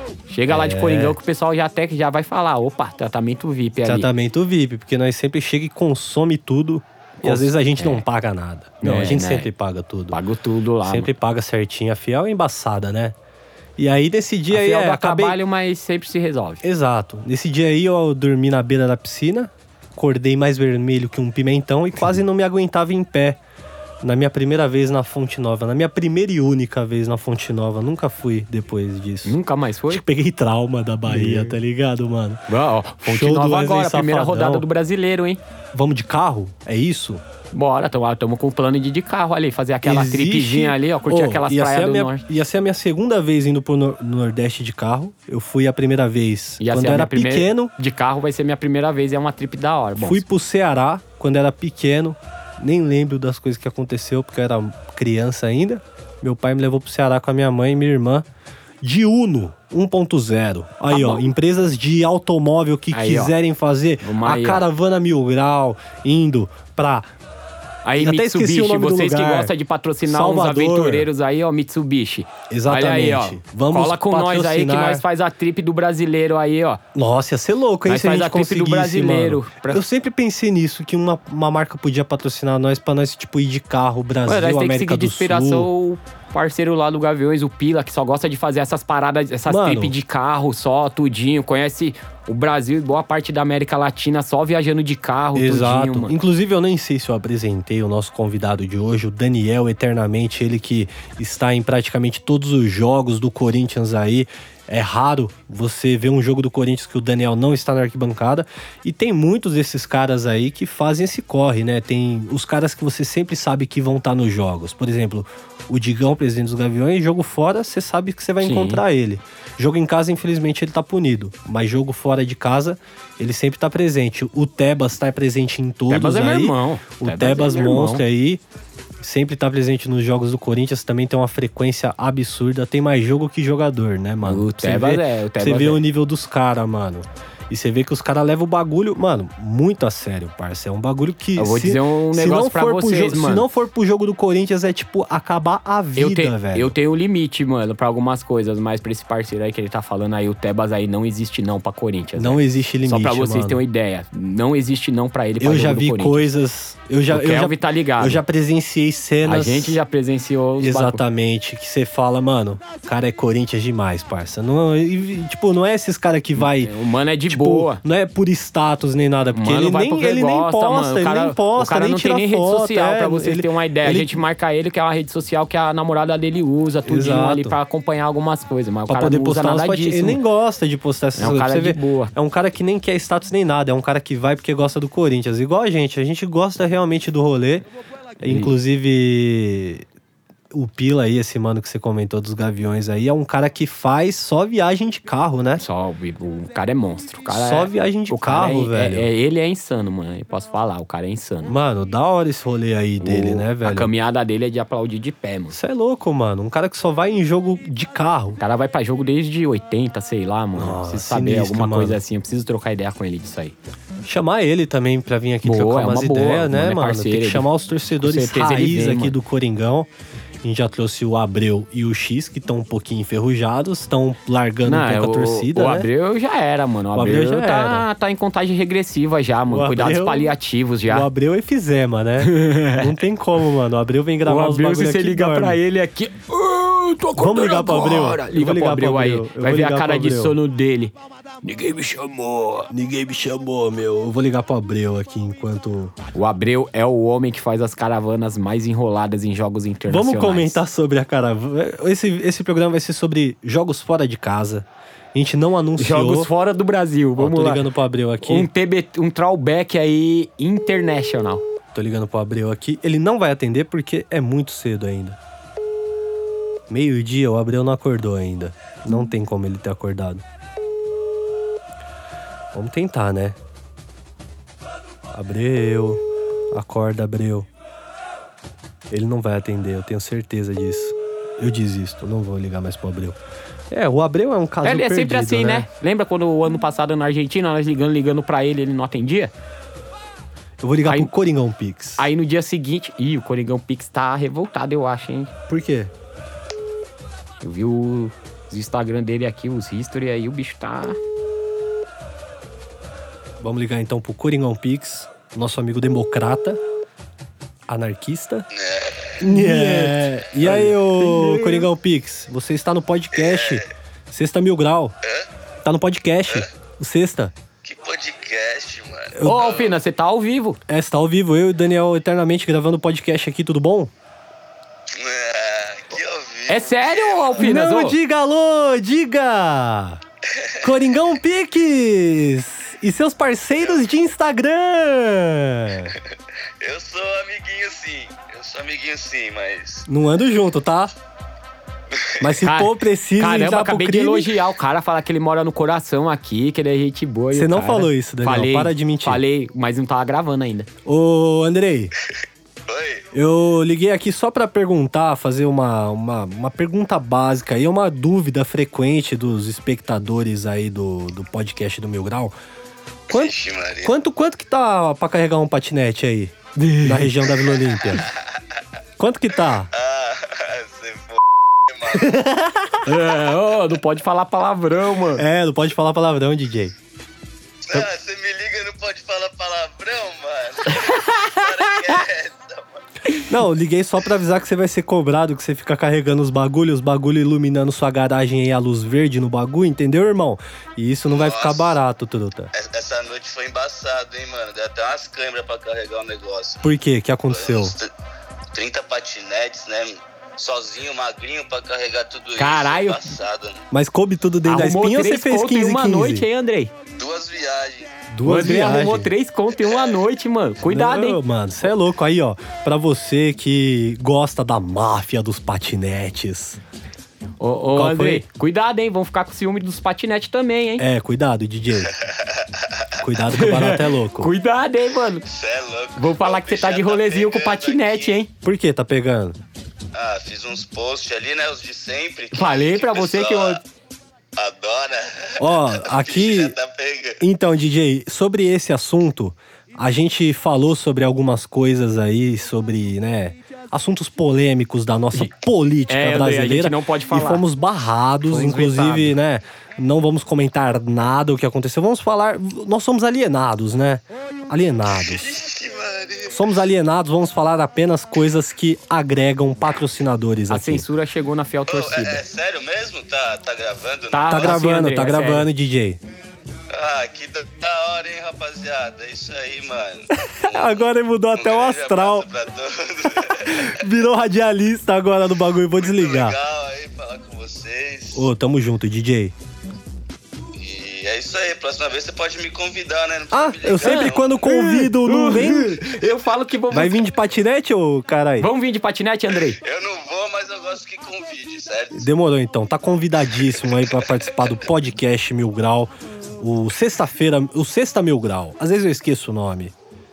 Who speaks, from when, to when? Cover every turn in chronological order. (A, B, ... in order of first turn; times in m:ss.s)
0:00.3-0:04.1 A
0:00.5-0:01.2 B
0:03.8-0:10.2 B
0:07.2-0:08.0 A
0:08.8-0:09.5 A
0:10.1-0:11.1 A
0:10.8-0:13.2 B
0:13.8-0:15.4 B
0:14.5-0:16.6 A
0:16.6-0:23.4 B
0:24.0-0:29.4 B
0:29.2-0:30.0 A
0:29.9-0:32.4 B
0:31.1-0:31.6 A
0:32.5-0:35.4 A
0:33.0-0:34.6 B
0:35.7-0:37.2 B
0:37.5-0:42.2 A
0:39.8-0:47.7 B
0:46.6-0:50.2 A
0:50.0-0:58.2 B
0:58.8-1:07.1 B
1:00.9-1:01.2 A
1:02.9-1:03.3 A
1:04.0-1:04.6 A
1:07.8-1:16.8 A
1:08.0-1:09.5 B
1:10.0-1:11.1 B
1:12.5-1:15.0 B
1:16.9-1:25.7 B
1:17.9-1:19.8 A
1:24.2-1:36.1 A
1:29.5-1:30.0 B
1:35.3-2:08.4 B
1:58.4-1:58.8 A
2:05.9-2:08.0 A
2:09.0-2:26.7 B
2:14.2-2:15.8 A
2:21.4-2:23.4 A
2:26.0-2:36.3 A
2:32.2-2:33.6 B
2:35.4-2:39.8 B
2:37.1-2:38.2 A
2:39.2-2:41.0 A
2:40.6-2:46.7 B
2:46.4-2:47.8 A
2:47.3-2:54.1 B
2:49.3-3:00.2 A
2:56.8-2:57.6 B
2:58.9-3:07.7 B
3:01.2-3:02.1 A
3:08.2-3:09.8 B
3:08.2-3:08.5 A
3:10.5-3:15.6 B
3:15.6-3:21.5 A
3:17.3-3:19.1 B
3:21.4-3:23.9 B
3:23.0-3:25.6 A
3:25.5-3:28.4 B
3:28.4-3:33.5 A
3:30.6-3:32.0 B
3:34.1-3:39.9 B
3:35.4-3:37.4 A
3:38.0-3:39.2 A
3:40.4-3:45.9 B
3:44.6-3:51.1 A
3:46.9-3:47.8 B
3:49.5-3:50.3 B
3:50.9-3:55.6 B
3:52.2-3:53.0 A
3:54.2-4:02.7 A
3:57.2-4:00.4 B
4:02.7-4:05.9 B
4:06.1-4:10.6 A
4:09.9-4:16.3 B
4:15.8-4:17.6 A
4:17.2-4:18.5 B
4:18.2-4:21.4 A
4:21.7-4:25.2 B
4:26.7-4:30.2 B
4:32.5-4:33.4 B
4:35.1-4:37.5 B
4:38.9-4:43.2 B
4:43.7-4:45.7 B
4:44.6-4:49.3 A
4:50.6-4:52.0 B
4:52.0-4:55.3 A
4:55.5-4:55.9 B
4:57.4-5:01.0 A
5:03.4-5:06.6 B
5:07.7-5:08.5 B
5:08.5-5:09.2 C
5:09.2-5:14.9 B
5:09.2-5:11.7 A
5:13.1-5:13.7 C
5:15.6-5:17.3 B
5:17.6-5:19.7 C
5:19.1-5:19.5 B
5:19.2-5:20.6 A
5:20.7-5:23.9 B
5:24.9-5:27.5 C
5:26.5-5:28.0 A
5:27.4-5:30.0 B
5:30.3-5:30.7 C
5:30.6-5:35.9 B
5:35.8-5:39.9 C
5:39.9-5:40.9 B
5:41.9-5:42.3 C
5:42.2-5:44.4 B
5:42.4-5:50.7 A
5:47.3-5:49.2 B
5:50.8-5:51.9 B
5:52.7-5:53.1 C
5:53.1-6:02.3 B
6:03.1-6:08.1 B
6:03.1-6:03.9 C
6:06.6-6:07.2 A
6:07.9-6:08.4 C
6:09.0-6:09.7 B
6:09.7-6:12.2 C
6:11.9-6:12.9 B
6:12.8-6:15.2 A
6:15.2-6:16.7 B
6:17.6-6:22.8 C
6:20.8-6:21.2 A
6:23.3-6:32.5 B
6:31.1-6:31.7 C
6:32.5-6:36.7 C
6:36.6-6:37.7 B
6:37.3-6:37.9 C
6:38.5-6:43.6 C
6:42.4-6:43.1 A
6:43.7-6:46.3 B
6:44.4-6:46.7 A
6:47.0-6:48.0 C
6:48.1-6:49.1 B
6:48.2-6:51.2 A
6:49.6-6:50.0 C
6:50.6-6:56.6 B
6:57.4-7:00.8 A
6:57.7-6:58.2 B
7:00.8-7:01.9 B
7:01.9-7:03.0 C
7:03.0-7:04.3 B
7:03.3-7:05.2 A
7:05.3-7:08.2 C
7:06.0-7:08.3 A
7:08.4-7:09.4 B
7:09.9-7:13.6 C
7:12.3-7:13.6 A
7:14.4-7:17.2 C
7:15.4-7:16.6 B
7:17.2-7:35.4 B
7:25.9-7:27.4 A
7:28.3-7:29.1 A
7:34.9-7:36.5 C
7:36.3-7:40.8 B
7:40.5-7:42.2 A
7:41.7-7:44.6 C
7:44.1-7:45.5 A
7:44.3-7:46.0 B
7:46.7-7:53.8 C
7:50.5-7:52.2 B
7:53.1-7:56.4 B
7:55.8-7:58.3 C
7:58.1-7:59.3 B
8:00.6-8:04.3 C
8:03.3-8:06.0 B
8:03.8-8:07.0 A
8:06.7-8:08.5 B
8:08.4-8:09.6 A
8:09.4-8:12.0 C
8:11.9-8:19.7 B